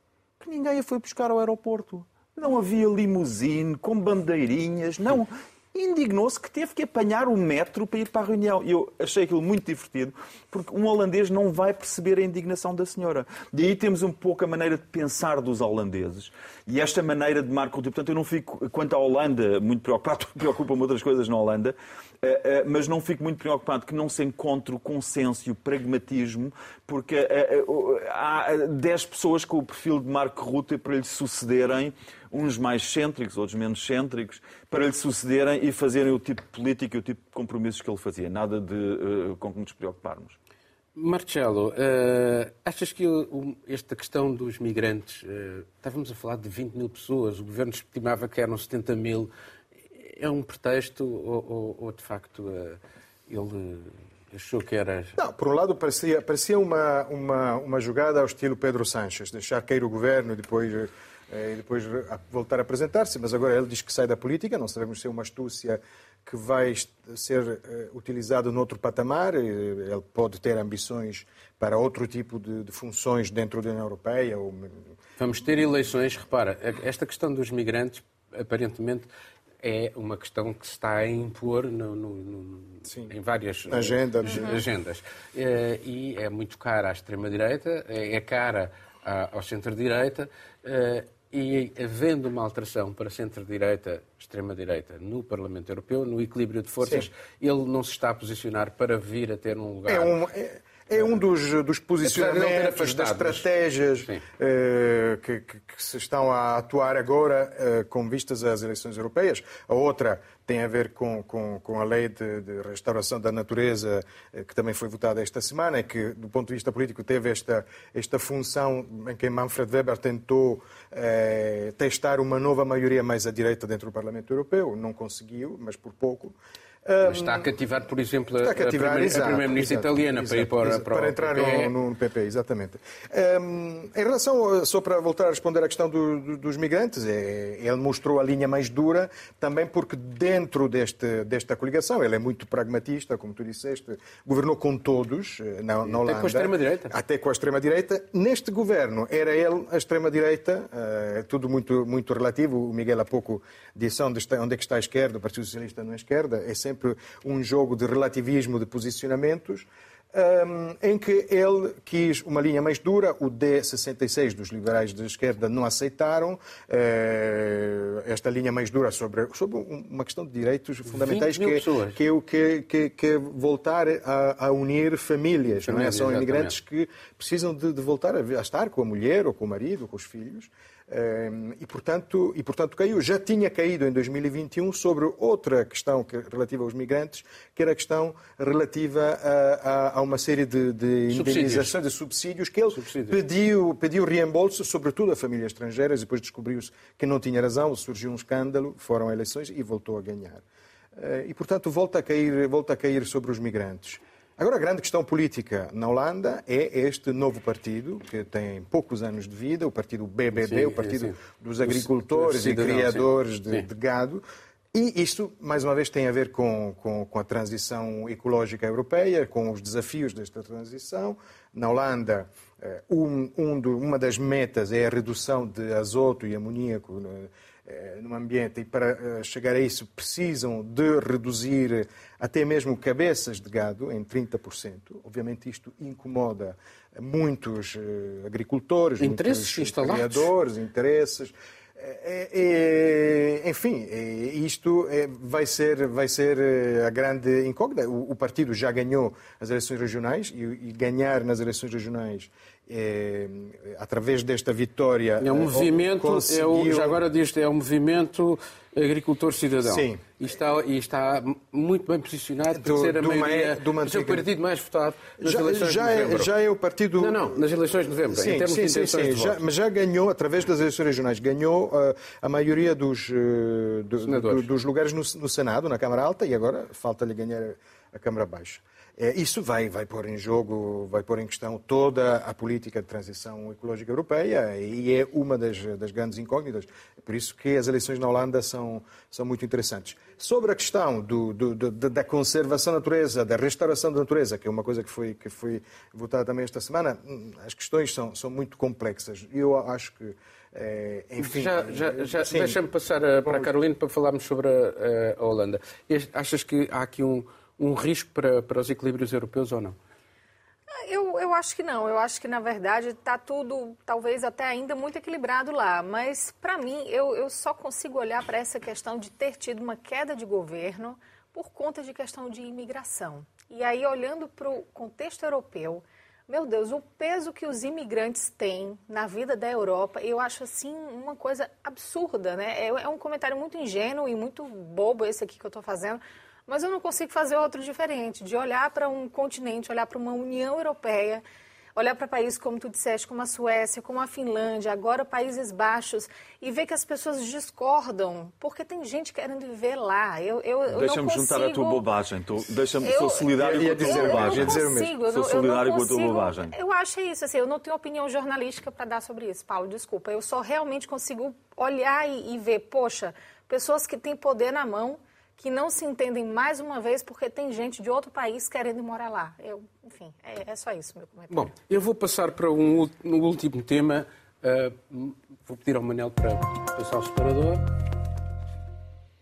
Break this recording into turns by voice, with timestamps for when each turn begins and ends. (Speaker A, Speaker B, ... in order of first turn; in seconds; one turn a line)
Speaker A: 0.4-40.4
Speaker B: 40.9-49.3
Speaker B: 50.0-55.2
Speaker C: 55.2-74.8
Speaker B: 75.2-79.1
Speaker B: 79.6-100.2
Speaker C: 83.7-84.6
Speaker C: 96.8-97.1
Speaker C: 99.9-127.5
Speaker B: 102.0-103.4
Speaker B: 127.0-131.7
Speaker C: 128.3-200.4
Speaker B: 145.8-146.9
Speaker B: 170.9-172.0
Speaker B: 175.6-176.6
Speaker B: 191.1-191.7
Speaker B: 192.7-193.2
Speaker C: 200.9-214.2
Speaker B: 210.4-213.7
Speaker C: 214.7-257.0
Speaker B: 239.0-240.3
Speaker B: 255.2-266.3
Speaker C: 259.6-260.0
Speaker C: 262.6-264.3
Speaker C: 265.2-267.4
Speaker B: 267.0-269.4
Speaker C: 268.1-302.6
Speaker B: 274.0-274.4
Speaker B: 301.2-309.8
Speaker D: 310.7-341.2
Speaker D: 341.8-351.8
Speaker A: 350.7-356.5
Speaker D: 352.8-371.5
Speaker C: 353.4-354.9
Speaker B: 371.3-377.7